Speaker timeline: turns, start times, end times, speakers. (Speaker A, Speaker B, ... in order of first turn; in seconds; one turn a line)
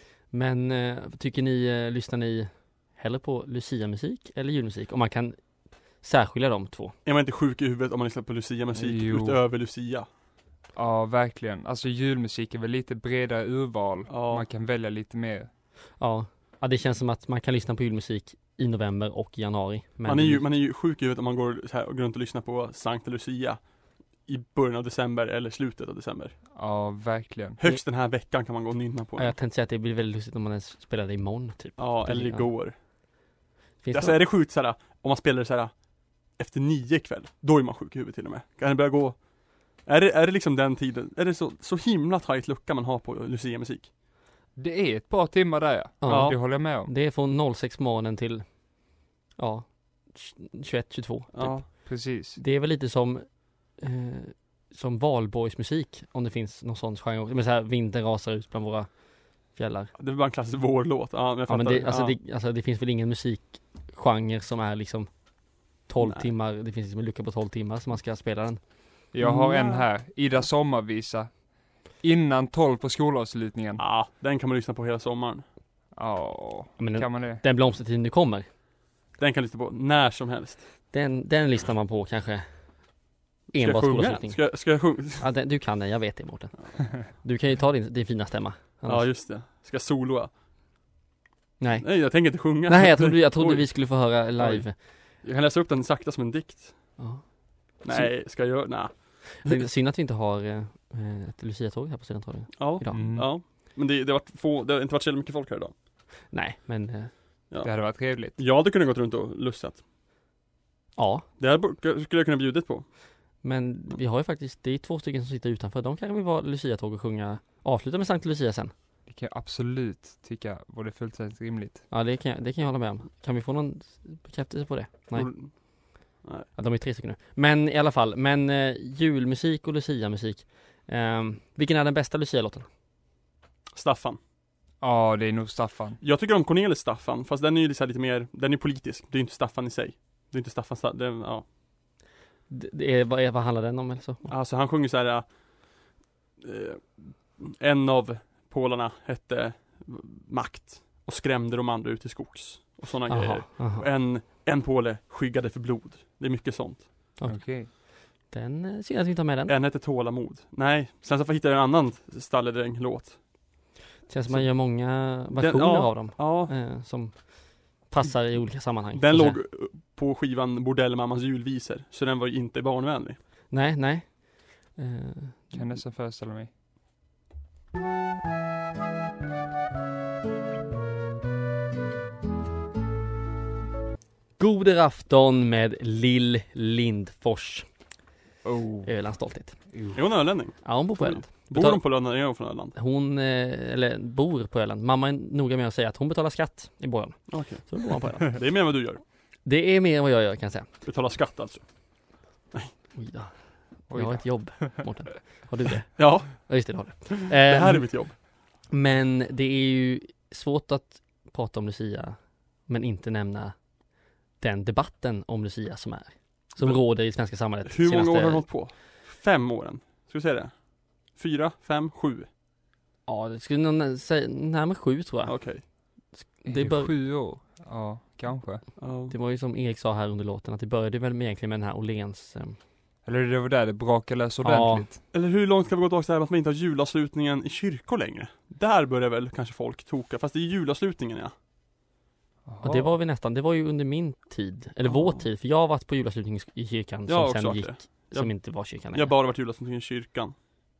Speaker A: 0.3-7.0
Speaker B: 7.0-10.1
Speaker C: 8.7-9.4
Speaker C: 10.7-15.5
Speaker B: 14.1-14.4
Speaker A: 16.0-20.4
Speaker B: 20.1-23.7
Speaker B: 24.2-26.4
Speaker C: 26.5-27.6
Speaker B: 27.6-29.3
Speaker A: 29.2-32.5
Speaker B: 31.8-32.7
Speaker A: 33.8-34.2
Speaker B: 33.9-35.8
Speaker B: 36.3-43.9
Speaker C: 44.5-46.9
Speaker A: 46.0-48.7
Speaker B: 46.1-46.4
Speaker A: 49.4-59.9
Speaker B: 51.3-51.6
Speaker C: 51.8-52.4
Speaker B: 60.0-62.1
Speaker A: 61.5-65.1
Speaker A: 65.7-68.6
Speaker B: 66.0-66.3
Speaker C: 69.1-73.8
Speaker B: 69.2-69.8
Speaker B: 73.8-75.4
Speaker C: 75.9-77.4
Speaker A: 76.8-78.5
Speaker B: 79.2-80.6
Speaker A: 80.9-82.8
Speaker A: 83.5-89.1
Speaker B: 83.5-85.3
Speaker B: 88.9-90.3
Speaker A: 91.6-94.7
Speaker B: 91.8-97.0
Speaker A: 97.0-98.2
Speaker B: 97.8-99.6
Speaker A: 99.4-103.1
Speaker B: 102.6-105.7
Speaker C: 102.9-103.3
Speaker A: 106.3-107.1
Speaker B: 107.5-109.8
Speaker C: 107.6-108.4
Speaker A: 111.0-111.2
Speaker B: 111.4-112.9
Speaker A: 113.4-118.7
Speaker C: 119.1-121.8
Speaker A: 121.9-125.3
Speaker B: 125.1-126.5
Speaker A: 126.5-132.7
Speaker B: 133.7-134.2
Speaker C: 134.8-136.0
Speaker B: 136.0-141.4
Speaker A: 142.5-144.3
Speaker B: 144.3-145.3
Speaker B: 146.4-156.9
Speaker A: 153.1-153.8
Speaker A: 157.2-159.5
Speaker C: 157.2-157.7
Speaker B: 159.5-163.3
Speaker A: 164.1-169.4
Speaker B: 164.3-166.5
Speaker B: 168.7-173.2
Speaker A: 173.5-175.8
Speaker C: 175.5-176.5
Speaker A: 184.4-187.7
Speaker C: 188.4-188.9
Speaker A: 188.8-189.6
Speaker C: 189.7-190.0
Speaker B: 189.9-192.7
Speaker A: 190.6-191.8
Speaker A: 192.7-198.4
Speaker B: 197.3-199.0
Speaker A: 199.4-200.7
Speaker B: 200.8-202.7
Speaker A: 202.9-213.6
Speaker C: 203.9-204.9
Speaker B: 206.0-208.2
Speaker A: 214.4-218.4
Speaker B: 217.6-222.3
Speaker A: 223.1-226.9
Speaker B: 225.2-225.6
Speaker C: 226.4-228.6
Speaker B: 228.8-229.1
Speaker A: 229.1-232.6
Speaker C: 233.0-235.0
Speaker A: 234.4-234.8
Speaker B: 235.1-241.3
Speaker C: 242.4-242.9
Speaker A: 242.6-249.1
Speaker B: 244.8-245.2
Speaker B: 247.1-250.3